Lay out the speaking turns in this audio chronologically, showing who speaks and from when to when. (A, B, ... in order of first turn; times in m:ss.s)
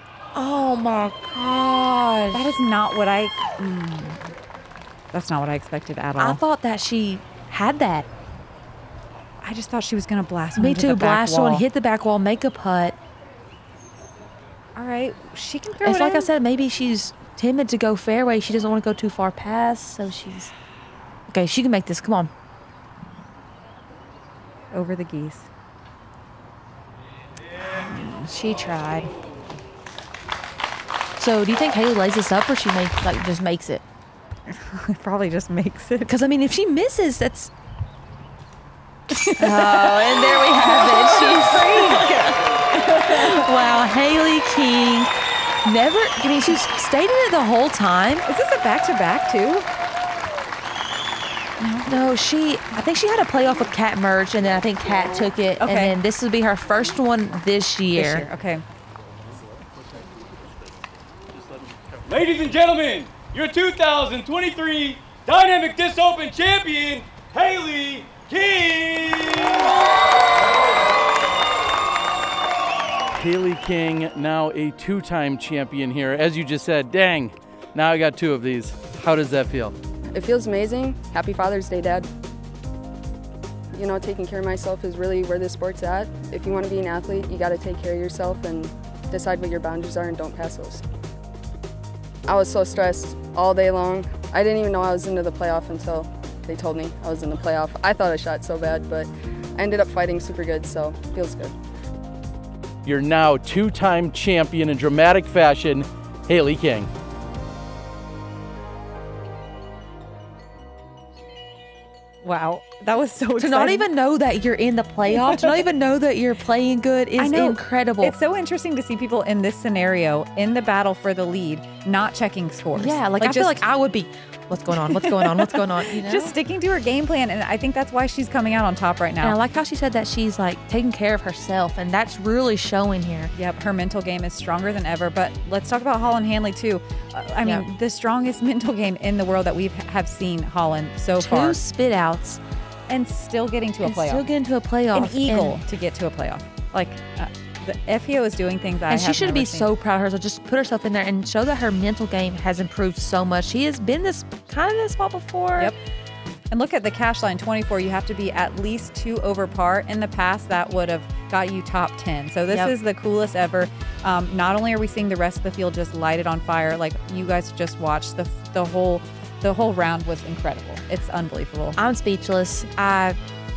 0:00.3-0:02.5 A
0:02.3-0:04.4 B
0:05.1-0:06.4 B
0:06.2-0:08.1 A
0:09.4-0:11.6 B
0:10.6-0:13.0 A
0:14.8-0:16.3 B
0:15.8-0:20.5 A
0:21.3-0:22.3 A
0:24.7-0:25.5 B
0:27.6-0:29.1 A
0:31.2-0:33.8 A
0:34.5-0:36.1 B
0:36.1-0:37.5 A
0:39.1-0:43.4 B
0:39.4-0:45.1 A
0:45.6-0:48.3 A
0:48.3-0:49.7 B
0:51.6-0:51.9 B
0:51.8-0:58.3 A
0:55.6-0:56.0 B
0:58.0-0:58.6 B
1:02.0-1:09.7 C
1:13.1-1:19.8 D
1:20.1-1:22.1 E
1:23.7-1:30.8 E
1:32.3-1:41.6 E
1:42.8-1:46.9 D
1:52.2-1:53.9 B
1:53.4-1:58.2 A
1:55.1-1:55.6 B
1:57.2-2:03.6 B
2:02.8-2:06.4 A
2:04.8-2:09.4 B
2:09.2-2:13.3 A
2:13.3-2:21.6 B
2:21.2-2:22.4 A
2:22.9-2:24.3 B
2:23.8-2:25.6 A
2:24.9-2:29.7 B
2:28.9-2:35.7 A
2:36.5-2:51.8 B
2:51.8-2:53.2 A